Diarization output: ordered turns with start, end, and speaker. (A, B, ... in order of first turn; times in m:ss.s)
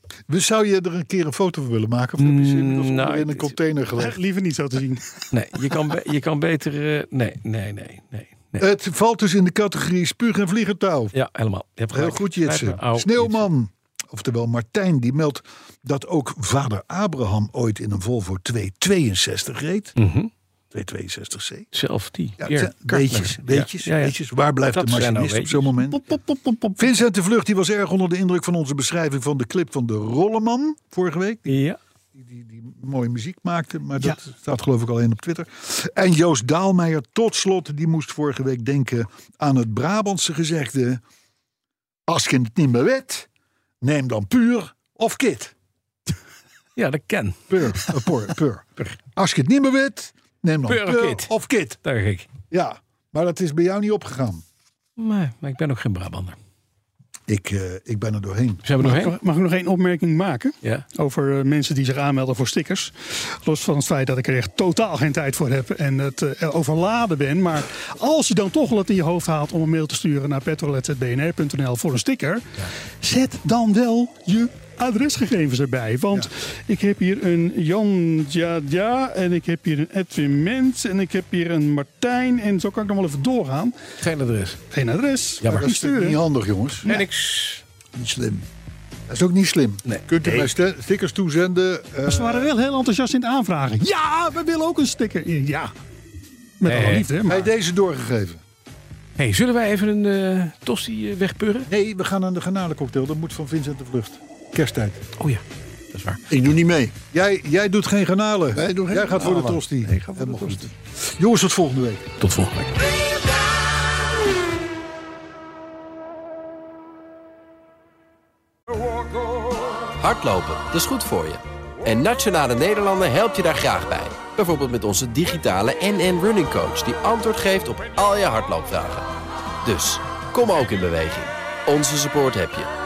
0:00.3-0:04.2 A
0:02.2-0:03.6 B
0:04.0-0:05.2 C
0:05.3-0:08.7 B
0:08.6-0:11.1 A
0:11.1-0:13.5 B
0:11.9-0:19.9 A
0:20.0-0:20.3 B
0:20.7-0:21.7 A
0:21.7-0:24.2 B
0:22.4-0:26.1 A
0:24.7-0:25.8 B
0:26.0-0:26.9 C
0:26.8-0:31.6 A
0:31.5-0:31.8 B
0:32.1-0:41.0 A
0:42.1-0:43.3 A
0:43.8-0:45.5 A
0:46.8-0:47.5 B
0:47.5-0:51.8 A
0:50.7-0:52.3 B
0:52.5-0:54.4 A
0:55.0-0:56.4 B
0:57.3-0:58.6 A
0:58.6-0:59.2 B
0:58.8-1:23.8 C
1:24.0-1:24.6 B
1:24.7-1:26.2 C
1:25.4-1:25.7 B
1:25.5-1:26.9 A
1:26.8-1:27.6 B
1:28.0-1:28.4 D
1:29.1-1:32.5 A
1:29.9-1:30.5 B
1:32.0-1:35.7 C
1:36.6-1:37.5 C
1:36.6-1:37.1 B
1:37.2-1:38.4 A
1:39.2-1:41.7 B
1:41.7-1:45.0 A
1:45.2-1:46.2 B
1:46.3-1:47.0 D
1:47.1-1:52.1 A
1:48.6-1:50.7 D
1:52.2-1:52.9 B
2:00.0-2:09.1 E
2:09.6-2:12.7 E